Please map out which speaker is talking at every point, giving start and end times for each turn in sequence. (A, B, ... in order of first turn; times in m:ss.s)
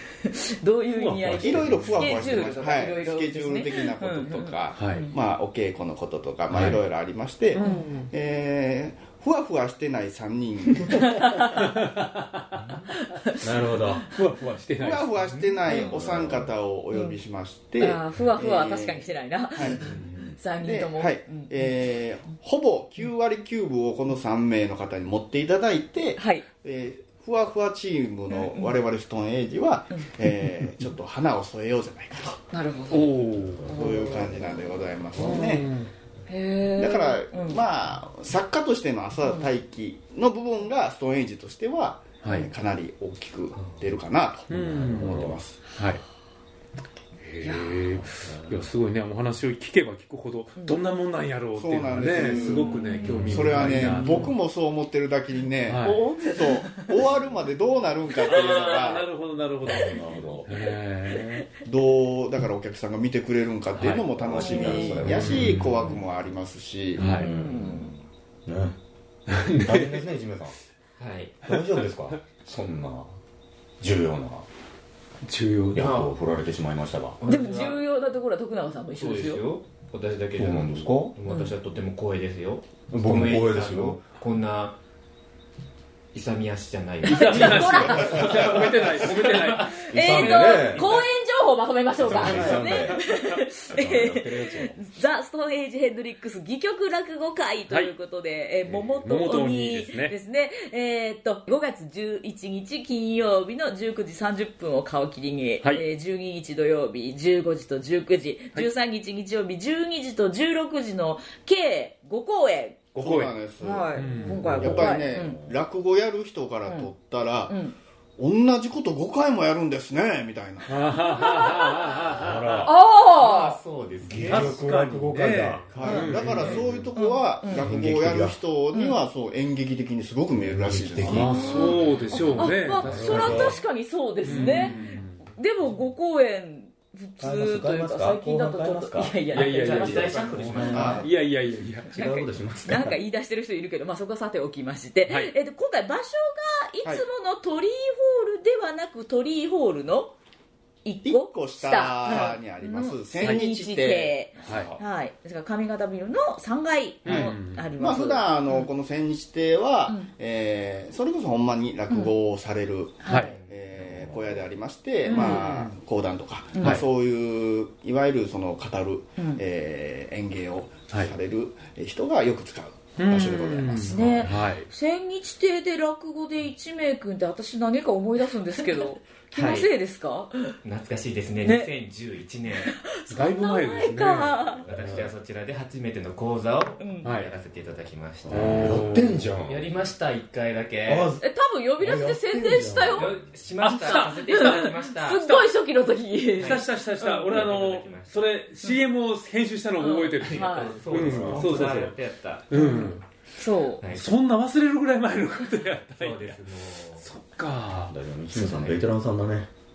0:00.2-0:05.1 A
0:00.9-0:02.6 B
0:01.4-0:11.1 C
0:04.7-0:05.1 B
0:06.5-0:06.8 B
0:07.5-0:08.1 B
0:07.6-0:08.0 A
0:10.8-0:11.8 A
0:11.5-0:12.6 B
0:12.9-0:14.0 A
0:13.4-0:14.0 D
0:14.0-0:15.1 B
0:14.8-0:20.0 C
0:15.2-0:15.5 E
0:15.6-0:16.0 A
0:15.9-0:16.5 D
0:16.9-0:17.2 A
0:17.8-0:21.7 A
0:19.8-0:20.3 B
0:20.6-0:32.4 C
0:26.2-0:26.4 A
0:28.3-0:28.8 A
0:32.5-0:34.4 A
0:32.9-0:33.8 B
0:33.6-0:35.6 C
0:35.2-0:35.9 B
0:36.3-0:37.6 A
0:36.8-0:45.6 C
0:39.2-0:39.5 A
0:42.2-0:42.5 B
0:44.5-0:45.4 D
0:44.5-0:46.0 B
0:47.2-0:54.3 B
0:47.4-0:47.8 A
0:48.2-0:48.7 D
0:51.6-0:59.1 C
0:52.3-0:54.3 A
0:53.1-0:53.8 D
0:55.6-0:56.1 B
0:55.8-0:57.0 A
0:58.1-0:58.9 A
0:58.2-1:01.4 B
0:59.6-1:00.5 D
1:00.5-1:01.2 A
1:01.2-1:01.4 D
1:01.6-1:07.1 C
1:03.7-1:04.1 E
1:04.1-1:05.6 D
1:04.3-1:05.2 A
1:05.1-1:06.0 B
1:05.2-1:06.0 E
1:07.0-1:08.0 A
1:07.0-1:07.3 B
1:07.2-1:07.9 D
1:08.4-1:08.8 D
1:09.3-1:10.0 B
1:09.6-1:10.5 D
1:11.0-1:11.4 E
1:11.4-1:13.2 D
1:13.8-1:14.4 D
1:15.2-1:15.9 B
1:15.7-1:17.2 D
1:15.8-1:16.1 E
1:17.2-1:17.8 E
1:17.3-1:19.4 A
1:19.0-1:24.8 E
1:20.4-1:21.1 D
1:21.2-1:21.5 A
1:22.9-1:24.0 D
1:26.1-1:29.0 E
1:27.0-1:52.8 A
1:27.0-1:29.9 B
1:28.0-1:28.5 D
1:29.8-1:31.0 D
1:30.0-1:31.0 E
1:32.0-1:33.1 D
1:32.2-1:32.5 B
1:33.6-1:34.8 D
1:38.9-1:40.1 B
1:52.9-1:53.3 B
1:53.0-1:57.6 C
1:53.6-1:55.4 A
1:53.9-1:54.5 B
1:54.2-1:55.6 D
1:57.5-1:57.8 A
1:58.2-2:00.9 C
2:00.7-2:02.7 B
2:00.9-2:02.1 A
2:02.1-2:02.7 D
2:02.6-2:03.6 A
2:03.1-2:04.7 E
2:04.1-2:06.9 D
2:04.2-2:06.6 B
2:05.7-2:11.8 C
2:05.8-2:06.1 A
2:06.9-2:07.6 A
2:07.5-2:08.4 D
2:07.6-2:07.9 E
2:08.7-2:09.0 A
2:10.3-2:11.8 D
2:11.1-2:13.6 B
2:11.3-2:21.0 A
2:12.8-2:13.6 D
2:14.2-2:15.2 B
2:17.2-2:21.1 D
2:19.3-2:21.9 B
2:19.6-2:21.1 E
2:20.7-2:21.1 C
2:21.9-2:23.0 D
2:21.9-2:30.1 A
2:25.1-2:25.3 B
2:30.8-2:38.7 A
2:31.0-2:34.8 C
2:34.4-2:34.7 B
2:37.0-2:37.7 B
2:37.1-2:54.4 C
2:43.0-2:43.4 A
2:43.1-2:43.4 B
2:43.1-2:44.5 E
2:45.0-2:45.7 A
2:45.1-2:45.7 B
2:46.5-2:46.8 A
2:53.0-2:54.7 B
2:53.7-3:00.5 A
2:59.3-2:59.7 E
3:00.6-3:02.8 E
3:01.4-3:01.7 A
3:02.6-3:04.6 A
3:03.1-3:04.6 B
3:04.6-3:11.1 E
3:06.8-3:07.1 A
3:07.0-3:07.3 B
3:08.3-3:09.6 D
3:08.3-3:09.2 B
3:10.8-3:11.2 D
3:11.2-3:13.1 A
3:11.8-3:13.1 D
3:13.0-3:15.5 E
3:13.6-3:14.7 B
3:13.7-3:17.5 A
3:16.4-3:22.0 B
3:16.4-3:18.3 E
3:19.8-3:20.8 A
3:20.4-3:22.7 E
3:20.9-3:21.8 D
3:22.5-3:23.0 B
3:22.5-3:23.8 A
3:23.8-3:24.1 E
3:23.8-3:26.4 B
3:25.9-3:27.1 E
3:27.0-3:27.9 B
3:27.9-3:29.5 D
3:28.3-3:28.8 E